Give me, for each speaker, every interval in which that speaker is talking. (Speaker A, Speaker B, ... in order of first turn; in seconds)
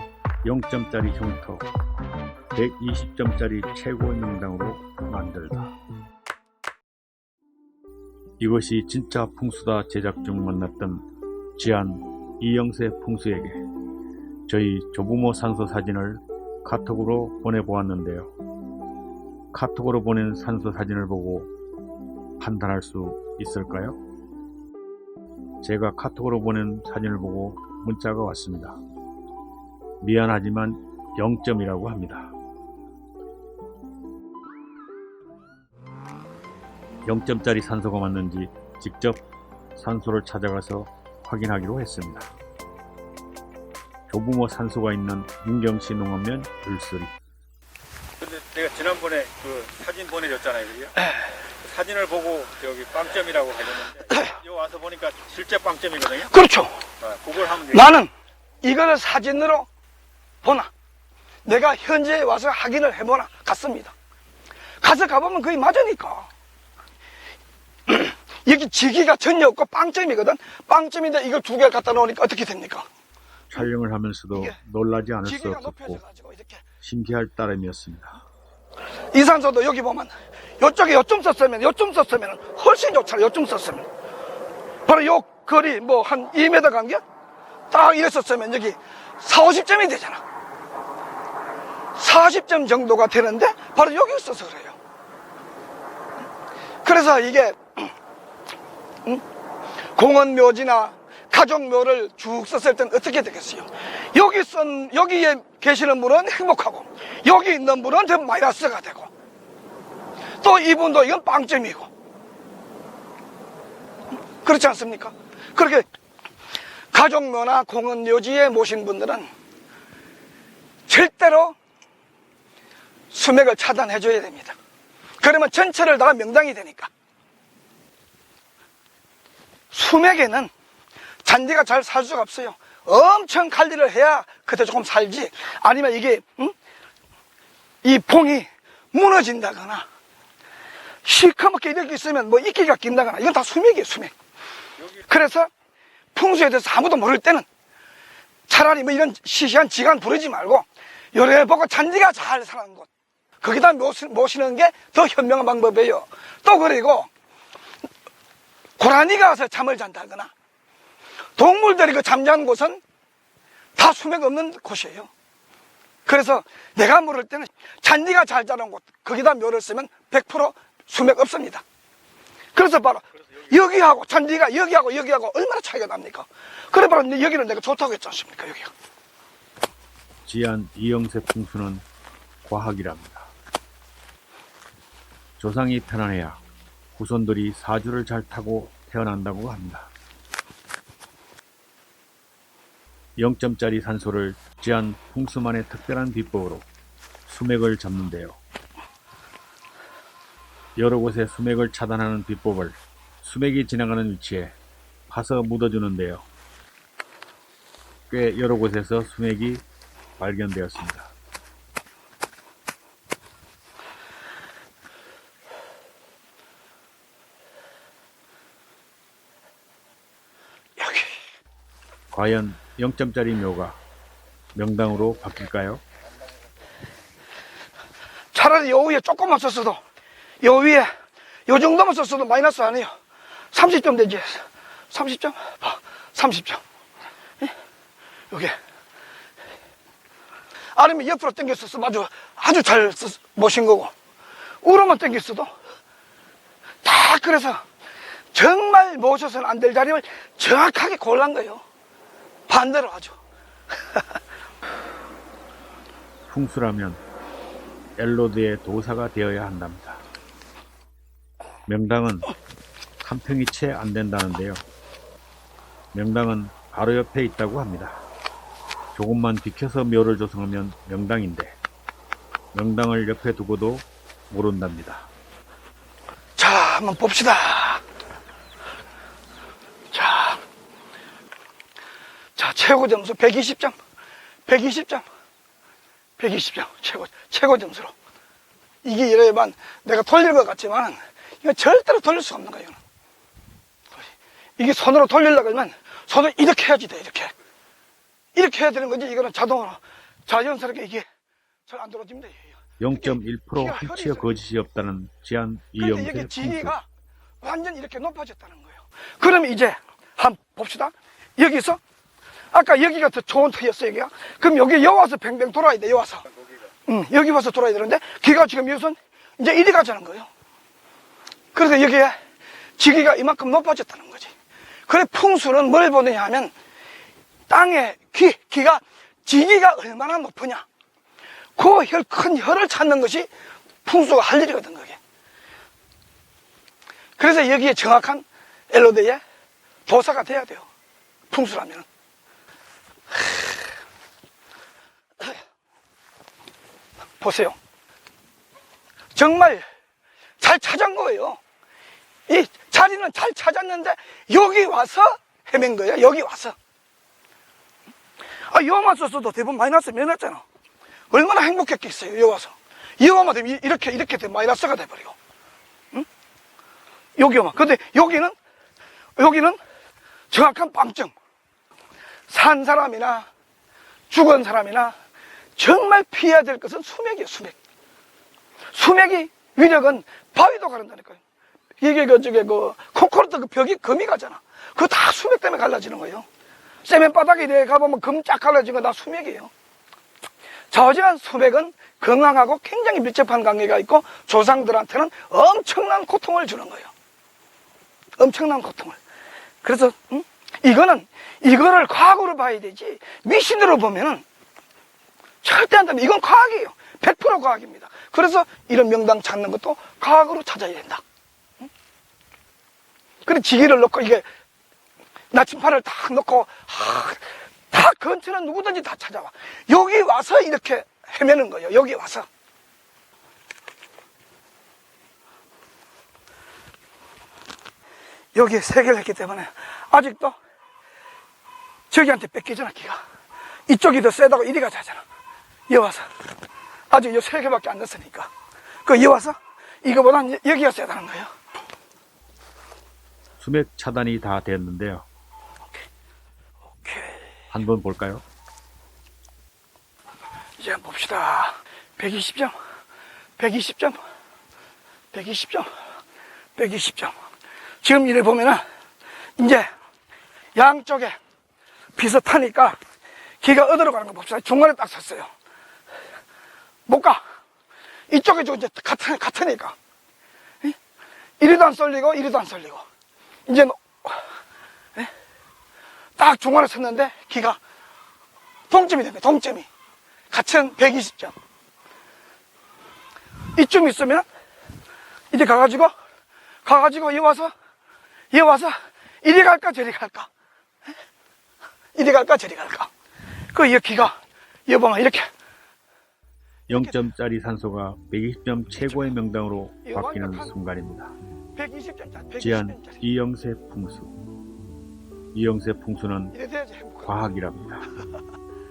Speaker A: 0.4-1.6, 2.5-5.7, 8.4-11.1, 11.6-13.6, 14.5-18.3, 19.5-21.5, 22.4-24.0, 25.6-28.8, 30.0-32.3, 37.0-39.2, 39.7-42.3, 44.1-47.1, 73.5-76.0, 76.8-78.2, 180.2-181.8, 182.4-183.3, 185.4-186.4, 186.9-189.9, 193.2-196.7, 197.3-198.4, 200.8-204.6, 205.1-206.2, 208.1-209.6, 210.2-211.1, 222.1-223.8, 224.5-225.8, 256.3-257.0, 258.0-260.0, 261.7-262.3, 263.0-264.6, 265.9-268.0, 268.9-271.6, 272.5-275.1, 302.8-306.7, 443.4-445.1, 447.5-448.2, 496.7-501.1, 502.4-504.1, 505.3-506.3, 507.1-507.9
Speaker B: 48.2-50.9, 51.6-56.3, 57.0-57.8
Speaker C: 54.1-54.3, 56.2-56.8, 57.5-58.1, 58.6-59.7, 60.4-60.7, 61.4-63.9, 64.8-66.3, 67.9-72.9, 74.3-74.6, 75.2-76.6, 79.1-83.9, 84.8-87.0, 87.7-90.2, 92.0-94.8, 96.8-97.9, 99.9-109.1, 110.4-111.9, 114.4-115.8, 116.9-119.3, 120.9-121.5, 123.1-124.5, 125.2-126.9, 129.7-130.5, 131.2-136.5, 137.8-139.8, 141.0-144.1, 145.0-145.5, 146.1-147.4, 148.5-152.9, 153.4-157.1, 158.8-160.3, 161.4-162.8, 163.8-165.1, 166.1-171.6, 172.5-178.7, 220.8-221.1, 228.3-229.8, 230.4-230.9, 231.5-232.9, 233.5-236.6, 240.7-243.9, 244.6-245.5, 246.8-247.6, 248.3-251.6, 252.5-253.2, 276.4-277.8, 279.9-280.4, 282.4-283.8, 284.5-285.0, 286.2-287.9, 288.8-292.8, 294.6-297.3, 298.3-301.0, 301.7-304.3, 305.8-306.9, 307.4-311.8, 312.5-316.3, 316.9-320.3, 321.5-322.1, 322.8-324.3, 324.9-326.5, 327.5-330.6, 331.6-333.3, 333.8-335.0, 337.2-339.2, 339.9-340.6, 341.3-341.9, 343.1-343.4, 347.2-347.6, 349.1-349.6, 350.4-351.4, 352.3-356.5, 358.5-360.4, 361.1-365.1, 367.1-368.3, 369.2-369.6, 370.3-371.1, 372.3-373.3, 374.1-374.9, 375.6-377.6, 378.7-381.2, 381.8-386.2, 386.8-389.5, 390.7-396.9, 398.2-399.0, 399.6-404.2, 405.4-411.0, 413.2-414.2, 415.3-422.2, 428.3-430.4, 431.9-433.0, 433.7-435.0, 435.7-436.1, 436.9-438.3, 438.8-441.3, 446.8-447.3, 450.6-452.5, 453.4-454.0, 455.1-455.7, 456.6-457.1, 457.8-458.6, 459.4-459.7, 460.5-461.1, 461.9-462.8, 463.4-465.3, 466.9-467.2, 468.1-469.8, 471.4-472.8, 473.5-474.2, 476.2-477.6, 478.7-479.7, 480.3-481.3, 483.5-484.2, 485.3-485.9, 486.6-487.5, 488.3-490.3, 491.9-492.9, 493.5-494.1, 494.7-495.3, 496.7-497.0, 499.8-500.5, 501.6-503.0, 506.3-507.3